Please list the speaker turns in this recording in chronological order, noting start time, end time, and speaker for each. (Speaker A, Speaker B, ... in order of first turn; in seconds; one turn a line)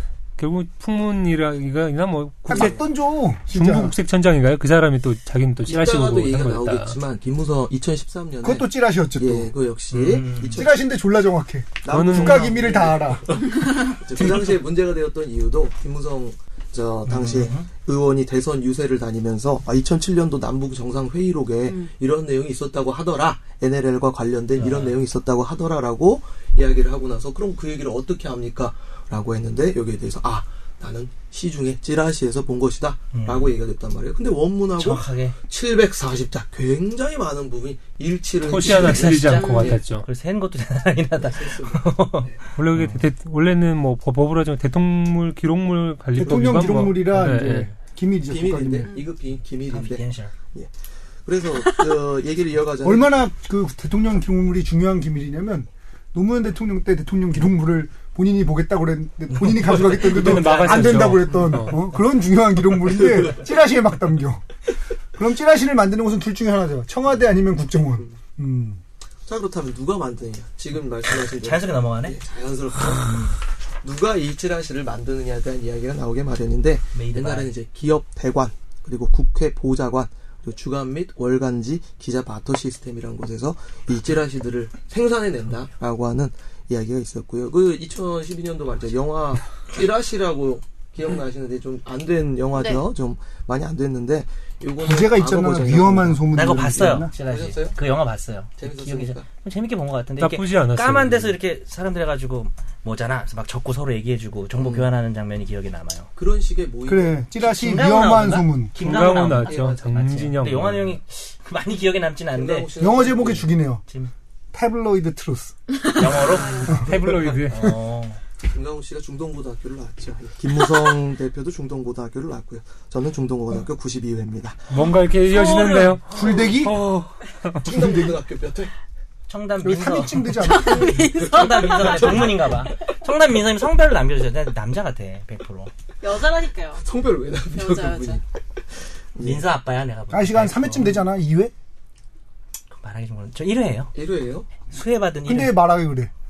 Speaker A: 0.4-2.9
Speaker B: 2.5-3.9
Speaker A: 3.4-7.0
Speaker C: 5.7-10.8
Speaker B: 8.4-9.5
Speaker D: 9.9-10.6
Speaker B: 10.5-13.3
Speaker C: 11.8-39.8
Speaker A: 11.9-12.6
Speaker B: 14.2-14.6
Speaker D: 17.1-17.7
Speaker D: 24.6-25.0
Speaker D: 33.1-33.5
Speaker D: 34.8-35.4
Speaker A: 38.4-40.1
Speaker D: 38.6-43.0
Speaker E: 39.3-39.8
Speaker C: 41.2-42.4
Speaker A: 42.5-47.7
Speaker B: 46.1-48.9
Speaker C: 46.3-46.6
Speaker C: 48.3-50.7
Speaker D: 49.7-50.3
Speaker C: 51.2-53.2
Speaker E: 51.6-52.0
Speaker B: 52.8-64.4
Speaker D: 59.5-61.2
Speaker A: 59.7-61.9
Speaker C: 60.5-61.6
Speaker C: 62.9-63.4
Speaker B: 65.1-68.8
Speaker C: 69.2-96.3
Speaker D: 71.0-72.2
Speaker D: 72.8-73.4
Speaker D: 76.9-77.5
Speaker E: 92.5-92.8
Speaker B: 94.8-97.1
Speaker D: 96.3-106.1
Speaker C: 96.9-97.8
Speaker C: 98.6-99.2
Speaker A: 100.2-101.3
Speaker C: 104.6-104.9
Speaker C: 106.2-107.2
Speaker B: 106.9-108.7
Speaker D: 107.4-112.7
Speaker A: 108.8-111.0
Speaker C: 112.3-113.5
Speaker B: 112.8-113.8
Speaker B: 114.5-116.0
Speaker D: 115.9-116.7
Speaker E: 116.4-116.7
Speaker A: 116.7-117.8
Speaker D: 117.3-118.2
Speaker C: 118.5-124.7
Speaker A: 124.7-126.3
Speaker D: 125.3-126.0
Speaker B: 126.1-126.8
Speaker C: 126.1-128.7
Speaker B: 127.7-128.2
Speaker D: 129.3-130.6
Speaker B: 129.6-130.9
Speaker E: 130.4-132.8
Speaker D: 131.2-135.7
Speaker E: 136.0-136.8
Speaker C: 136.8-138.2
Speaker E: 137.5-138.2
Speaker C: 139.1-139.4
Speaker D: 139.2-141.0
Speaker B: 140.1-141.5
Speaker D: 142.7-143.9
Speaker C: 143.9-144.5
Speaker D: 144.7-145.6
Speaker B: 145.2-146.1